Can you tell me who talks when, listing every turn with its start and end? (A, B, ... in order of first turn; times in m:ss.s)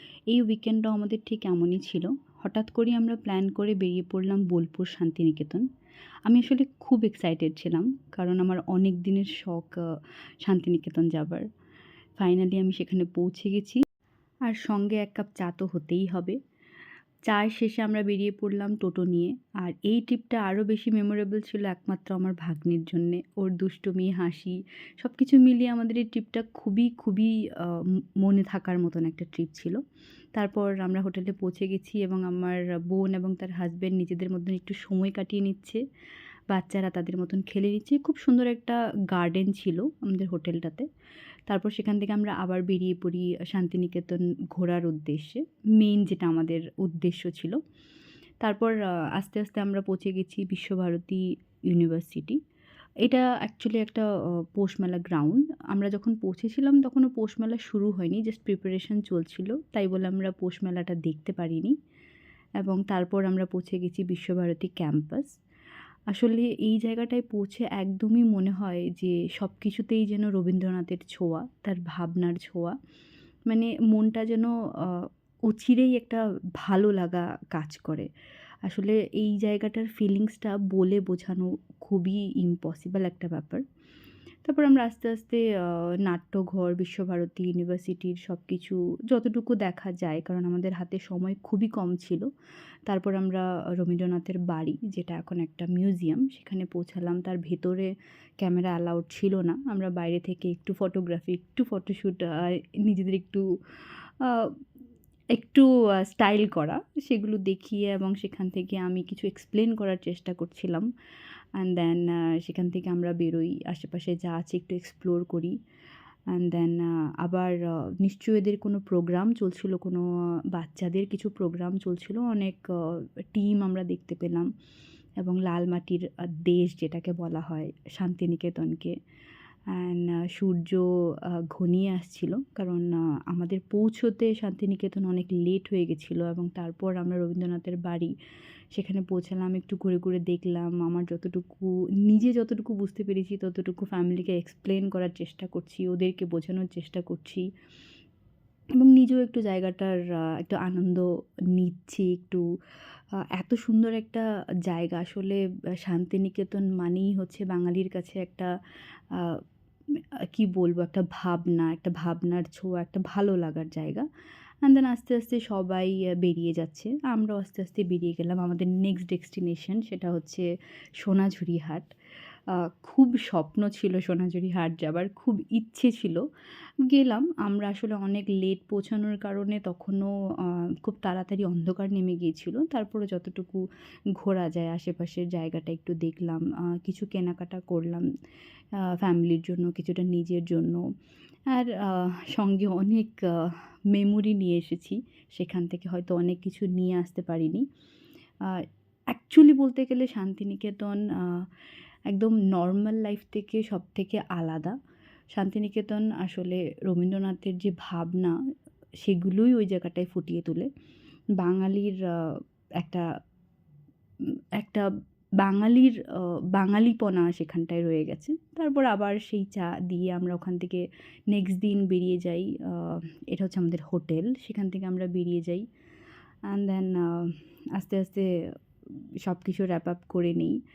0:00.3-0:05.7 A
0:06.3-0:09.8 A
0:10.4-0:11.4 A
0:12.2-0:13.8 A
0:14.5-0:16.4 A
0:17.3-0:29.8 A
0:30.4-0:35.8 A
0:36.5-0:40.9 A
0:41.5-0:47.6 A
0:48.4-0:52.4 A
0:53.0-1:01.7 A
1:02.6-1:05.4 A
1:06.1-1:12.8 A
1:13.5-1:18.1 A
1:18.7-1:23.6 A
1:24.4-1:32.3 A
1:32.9-1:43.4 A
1:44.2-1:44.5 A
1:45.3-1:50.9 A
1:51.6-1:55.6 A
1:56.3-2:04.5 A
2:05.2-2:08.9 A
2:09.7-2:10.9 A
2:11.5-2:18.1 A
2:18.7-2:27.5 A
2:28.8-2:32.4 A
2:33.3-2:38.5 A
2:39.1-2:39.4 A
2:40.3-2:44.1 A
2:44.6-2:50.5 A
2:51.0-2:51.9 A
2:52.7-2:56.2 A
2:56.9-3:03.6 A
3:04.2-3:08.1 A
3:08.8-3:10.8 A
3:11.5-3:17.6 A
3:18.4-3:21.5 A
3:22.1-3:24.8 A
3:25.3-3:28.4 A
3:29.0-3:30.7 A
3:31.4-3:33.1 A
3:34.6-3:34.9 A
3:35.4-3:45.6 A
3:46.5-3:48.3 A
3:49.2-3:50.6 A